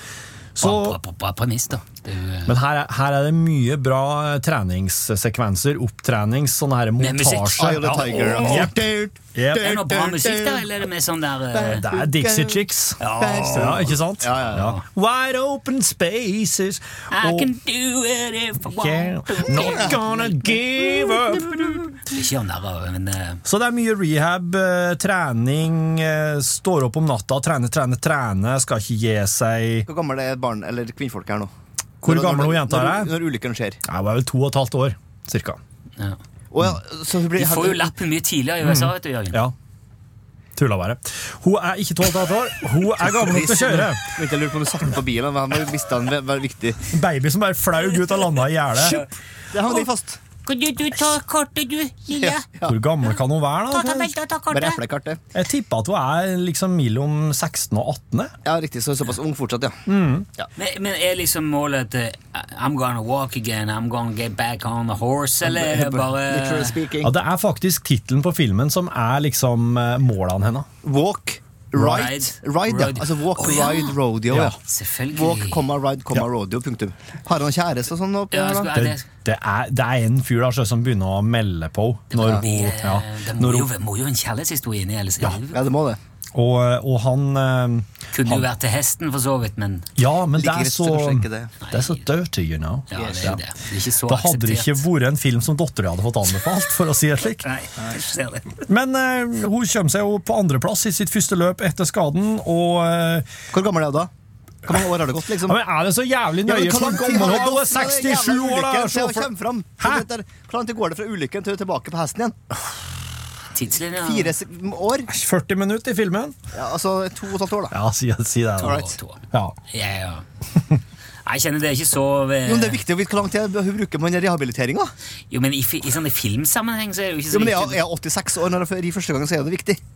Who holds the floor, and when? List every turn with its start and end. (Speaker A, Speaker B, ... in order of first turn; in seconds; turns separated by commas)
Speaker A: 0.6-1.0, Speaker B: 0.6-2.6, Speaker A: 2.5-9.8, Speaker B: 7.0-8.7, Speaker C: 7.6-10.7, Speaker B: 9.5-11.8, Speaker C: 11.5-14.8, Speaker A: 11.8-17.5, Speaker B: 13.0-13.8, Speaker B: 14.6-14.8, Speaker B: 17.1-19.9, Speaker A: 18.6-21.9, Speaker D: 19.3-19.9, Speaker C: 19.6-20.1, Speaker B: 22.0-23.4, Speaker A: 23.4-29.9, Speaker C: 29.9-33.8, Speaker A: 32.0-33.1, Speaker A: 33.8-35.6, Speaker C: 36.5-37.9, Speaker B: 37.3-39.4, Speaker A: 38.6-39.5, Speaker A: 40.5-44.1, Speaker C: 43.0-46.8, Speaker A: 46.9-49.0, Speaker C: 49.5-50.2, Speaker D: 50.4-52.5, Speaker C: 52.1-52.8, Speaker A: 52.7-54.1, Speaker D: 53.7-54.8, Speaker C: 54.5-55.2, Speaker A: 55.3-58.3, Speaker C: 58.4-59.8, Speaker A: 59.9-60.3, Speaker B: 60.5-66.8, Speaker C: 65.4-67.1, Speaker A: 67.0-70.7, Speaker C: 70.8-74.6, Speaker A: 71.7-72.1, Speaker B: 71.9-73.9, Speaker A: 74.3-74.5, Speaker B: 74.6-75.6, Speaker C: 75.1-78.7, Speaker B: 78.3-79.0, Speaker A: 78.7-83.7, Speaker B: 82.1-85.7, Speaker C: 85.5-86.0, Speaker A: 86.3-88.5, Speaker B: 88.1-89.9, Speaker A: 90.0-93.4, Speaker C: 90.3-91.5, Speaker B: 91.6-92.0, Speaker B: 92.9-94.9, Speaker C: 92.9-93.4, Speaker A: 94.0-97.4, Speaker B: 97.4-98.5, Speaker A: 98.6-103.3, Speaker C: 103.5-104.1, Speaker C: 104.7-105.6, Speaker A: 105.4-109.3, Speaker C: 106.5-112.4, Speaker A: 109.8-110.0, Speaker B: 113.5-114.4, Speaker C: 114.0-115.1, Speaker A: 115.1-116.4, Speaker C: 116.5-117.7, Speaker A: 117.7-119.5, Speaker C: 118.6-118.9, Speaker B: 118.6-120.2, Speaker B: 121.2-122.8, Speaker C: 122.4-124.9, Speaker B: 125.3-127.8, Speaker C: 127.3-129.8